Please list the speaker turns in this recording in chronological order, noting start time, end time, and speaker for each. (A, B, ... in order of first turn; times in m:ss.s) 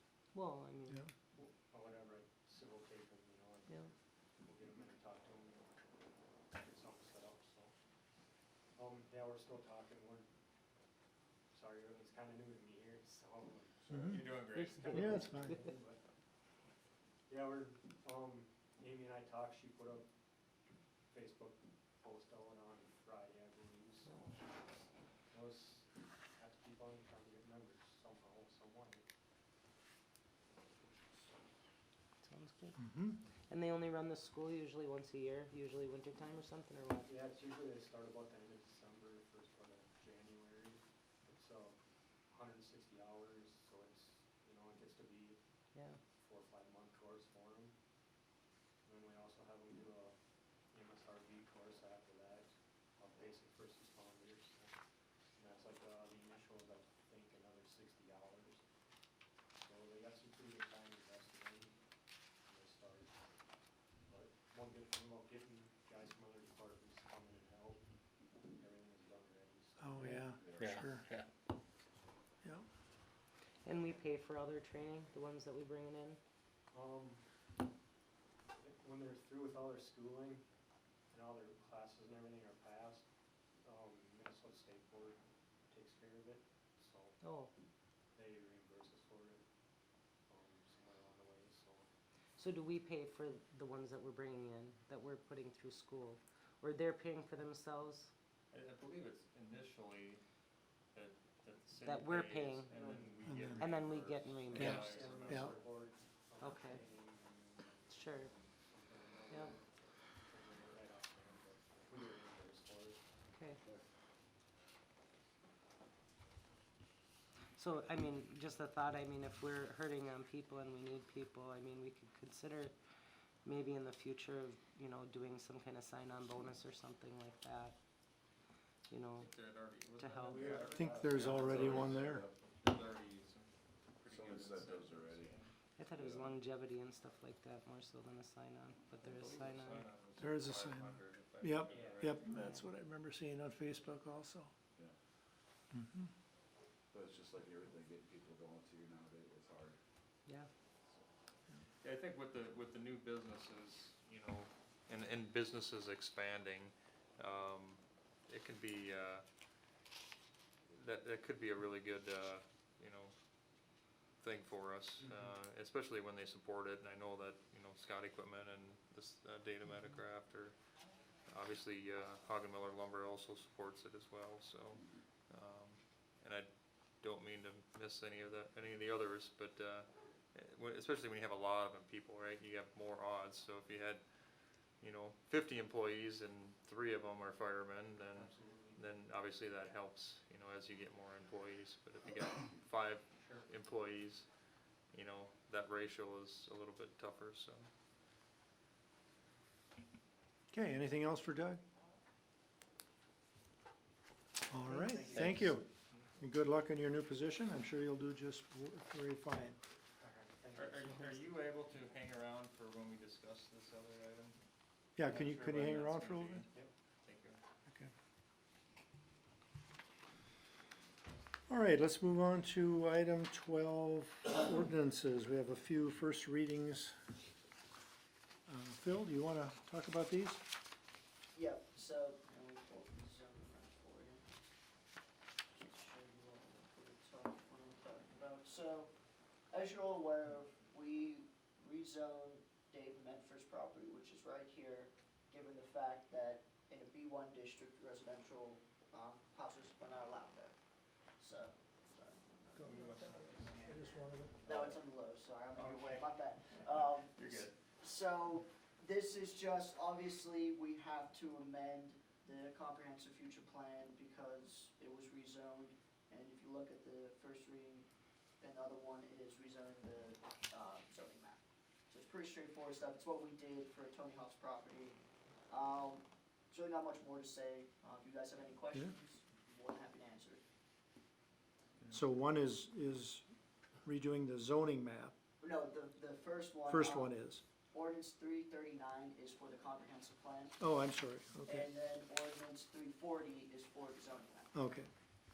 0:00.3-0:01.0 A
0:01.3-0:05.8 B
0:06.5-0:07.7 B
0:08.8-0:10.3 B
0:11.5-0:16.0 B
0:13.9-0:15.1 C
0:13.9-0:14.2 D
0:14.9-0:15.6 D
0:17.3-0:20.1 B
0:21.1-0:24.6 B
0:24.1-0:24.4 A
0:25.3-0:29.0 B
0:32.2-0:32.8 A
0:32.8-0:33.2 D
0:33.5-0:37.1 A
0:37.1-0:41.8 B
0:42.3-0:45.4 B
0:45.7-0:46.0 A
0:46.1-0:47.8 B
0:48.8-0:50.2 B
0:50.7-0:54.8 B
0:55.4-0:58.6 B
0:59.6-1:01.8 B
1:02.4-1:03.4 B
1:04.1-1:07.8 B
1:08.5-1:10.2 B
1:09.8-1:11.0 D
1:10.0-1:10.3 A
1:10.4-1:10.9 E
1:10.6-1:11.2 C
1:13.6-1:16.2 A
1:16.7-1:17.2 B
1:18.6-1:20.4 B
1:21.1-1:23.0 B
1:23.6-1:25.2 B
1:25.7-1:27.2 B
1:27.2-1:27.5 A
1:28.2-1:29.4 B
1:30.3-1:31.9 B
1:32.4-1:38.1 A
1:38.5-1:40.2 C
1:40.9-1:45.6 C
1:41.8-1:42.7 A
1:42.7-1:43.6 B
1:43.3-1:43.6 D
1:43.6-1:45.2 A
1:44.5-1:53.8 B
1:44.6-1:45.5 D
1:46.4-1:46.8 A
1:47.9-1:48.3 A
1:49.3-1:49.5 A
1:53.3-1:53.6 A
1:57.6-2:02.7 A
2:03.4-2:07.8 A
2:08.9-2:10.7 A
2:09.2-2:15.5 C
2:10.3-2:12.3 E
2:10.7-2:12.2 D
2:11.4-2:11.7 A
2:14.1-2:15.4 E
2:15.8-2:19.9 A
2:16.0-2:16.3 E
2:19.0-2:22.4 C
2:20.2-2:24.5 D
2:21.7-2:22.1 B
2:22.3-2:22.7 A
2:25.7-2:26.1 D
2:26.9-2:29.8 E
2:31.8-2:39.2 C
2:40.7-2:43.1 C
2:44.2-2:50.6 C
2:45.0-2:45.3 B
2:51.3-2:56.5 C
2:57.0-3:04.0 C
3:04.8-3:14.3 C
3:08.1-3:08.8 B
3:13.2-3:13.5 B
3:14.9-3:17.7 C
3:20.5-3:21.6 D
3:24.5-3:25.7 D
3:24.7-3:25.5 B
3:26.2-3:29.6 D
3:30.0-3:31.2 B
3:30.6-3:34.4 C
3:35.0-3:36.4 D
3:35.0-3:37.4 C
3:37.7-3:37.9 D
3:41.5-3:47.0 D
3:48.5-3:50.4 D
3:51.3-3:54.4 F
3:55.5-3:58.9 F
3:59.5-4:10.6 F
4:11.2-4:12.8 F
4:12.6-4:14.4 D
4:12.6-4:14.8 C
4:14.4-4:27.9 F
4:15.6-4:17.6 C
4:28.4-4:35.0 F
4:35.5-4:40.4 F
4:41.9-4:43.2 D
4:43.8-4:45.2 D
4:45.4-4:47.2 F
4:46.7-4:47.4 D
4:47.7-4:50.6 F
4:50.6-4:51.7 D
4:51.4-4:54.5 F
4:54.5-4:54.9 D